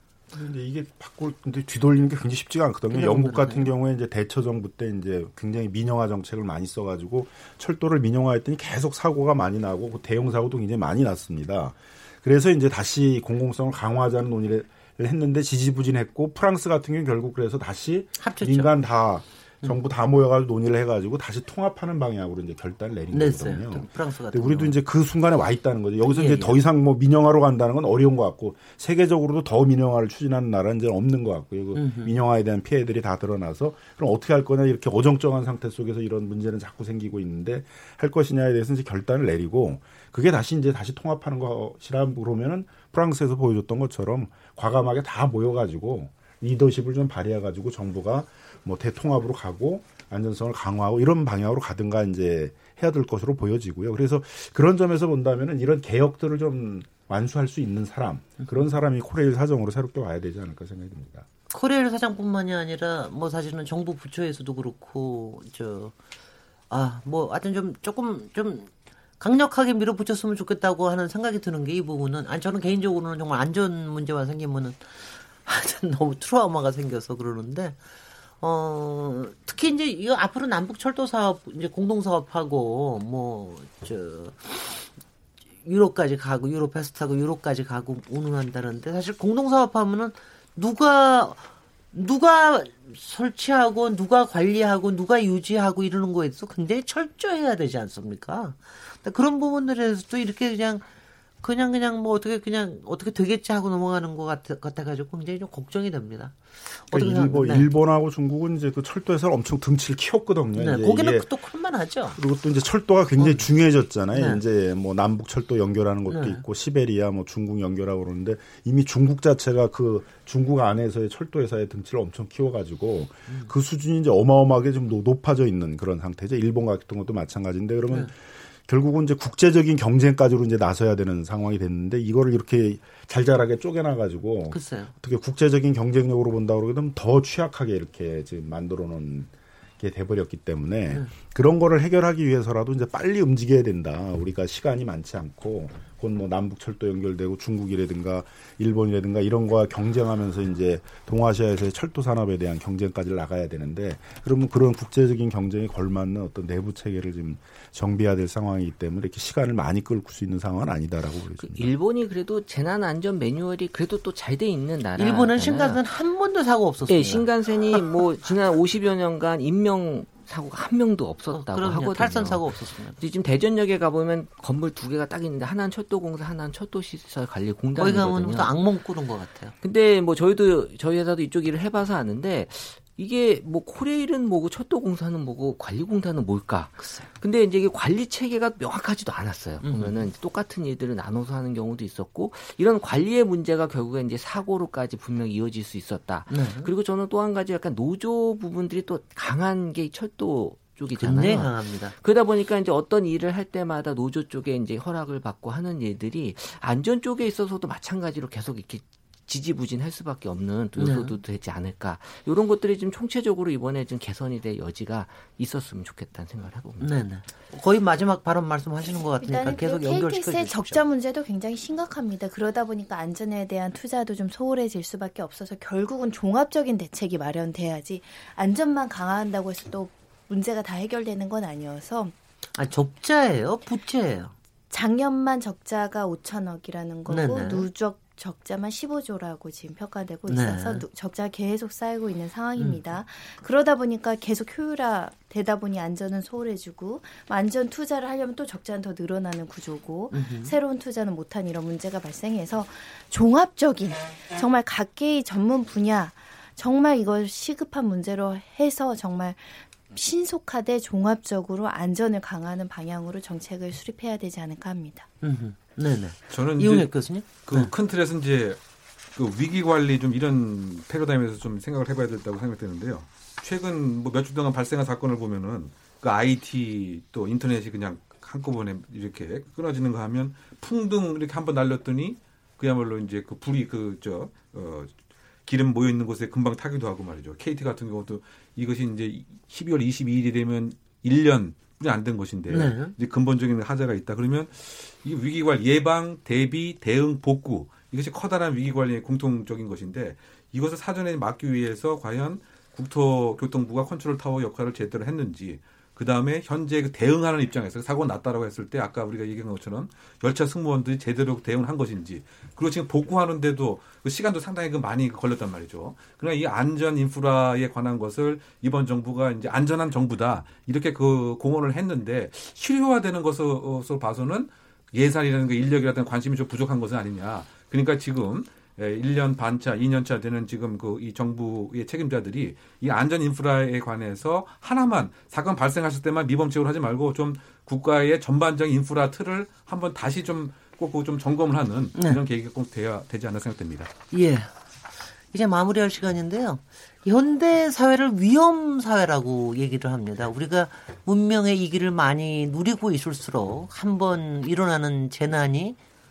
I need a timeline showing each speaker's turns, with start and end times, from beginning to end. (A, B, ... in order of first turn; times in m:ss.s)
0:00.3-1:01.3 A
0:02.9-0:03.7 B
0:18.2-0:18.7 B
0:23.1-0:24.8 B
0:26.0-0:26.6 B
0:31.7-0:32.1 B
1:01.5-1:05.9 B
1:06.7-1:17.8 B
1:18.4-1:24.9 B
1:25.6-1:40.8 B
1:41.4-1:47.7 B
1:46.9-1:51.3 A
1:50.5-1:52.2 B
1:52.1-2:08.1 A
1:53.2-1:53.5 B
1:54.1-1:54.4 B
1:56.1-1:56.4 B
2:08.6-2:41.7 A
2:14.5-2:14.9 B
2:41.4-2:45.8 C
2:45.0-2:47.8 B
2:46.9-2:58.6 C
2:51.3-2:53.0 B
2:57.7-2:59.5 B
2:59.6-3:37.0 C
3:06.8-3:07.1 B
3:09.6-3:10.1 B
3:16.3-3:16.7 B
3:20.9-3:21.9 B
3:30.8-3:31.2 B
3:36.8-3:40.8 B
3:39.2-3:52.1 D
3:52.6-3:54.3 B
3:54.7-4:25.1 D
3:57.1-3:57.7 B
4:00.3-4:00.9 B
4:02.6-4:02.9 B
4:10.1-4:10.6 B
4:25.2-4:27.7 B
4:26.3-4:28.6 E
4:29.1-4:44.9 E
4:45.4-5:43.9 E
4:52.5-4:52.9 B
5:41.9-5:42.2 B
5:44.1-5:44.5 B
5:45.3-5:55.8 B